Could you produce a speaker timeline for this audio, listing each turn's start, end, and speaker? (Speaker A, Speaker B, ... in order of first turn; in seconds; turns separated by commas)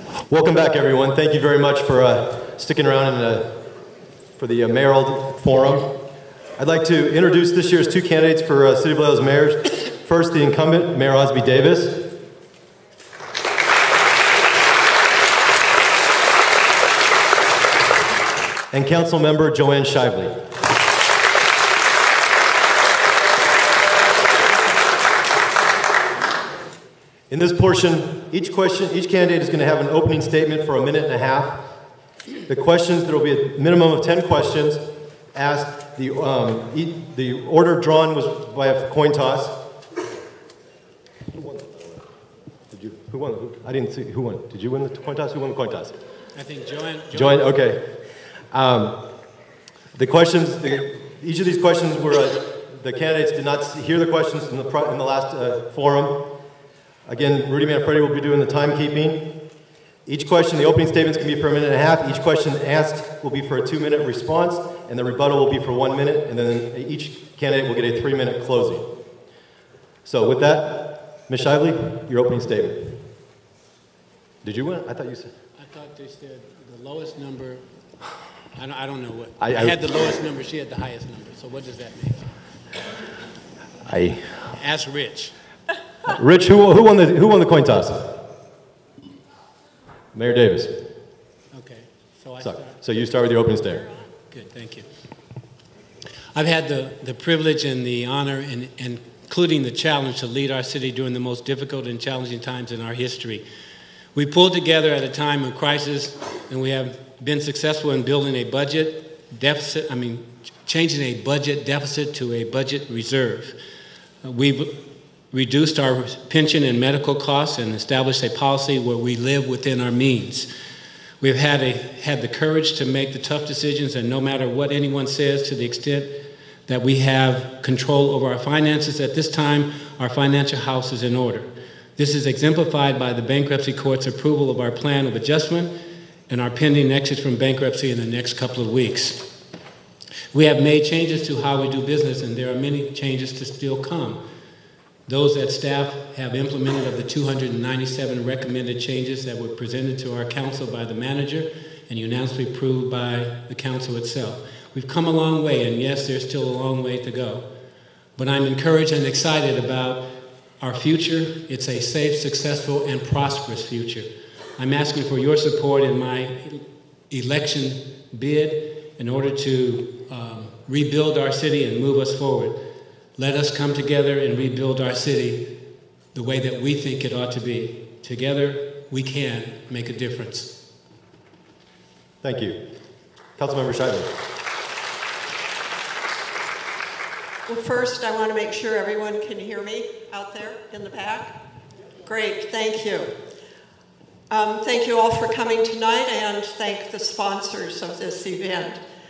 Speaker A: 0.3-3.6, Speaker A: 4.4-6.0, Speaker A: 6.6-12.2, Speaker A: 18.7-20.5, Speaker A: 27.3-31.7, Speaker A: 32.5-39.6, Speaker A: 41.3-42.0, Speaker A: 42.7-46.0, Speaker B: 46.4-47.5, Speaker A: 47.1-48.0, Speaker A: 48.5-49.1, Speaker A: 49.9-56.4, Speaker A: 57.1-59.4, Speaker A: 60.0-69.0, Speaker A: 70.0-73.1, Speaker A: 74.4-75.3, Speaker B: 75.6-77.6, Speaker B: 78.5-82.3, Speaker A: 79.4-79.8, Speaker A: 83.9-84.3, Speaker B: 84.4-85.3, Speaker A: 86.0-88.3, Speaker A: 90.1-90.9, Speaker B: 91.5-92.8, Speaker A: 92.4-93.9, Speaker B: 94.3-94.9, Speaker B: 96.3-103.4, Speaker B: 104.1-113.6, Speaker B: 114.2-120.5, Speaker B: 121.2-135.8, Speaker B: 136.3-139.4, Speaker B: 140.3-144.2, Speaker B: 145.1-157.5, Speaker B: 158.2-172.6, Speaker B: 173.2-175.6, Speaker B: 176.1-180.7, Speaker A: 182.2-182.7, Speaker A: 183.4-184.2, Speaker C: 187.5-191.4, Speaker C: 192.0-193.2, Speaker C: 194.3-198.8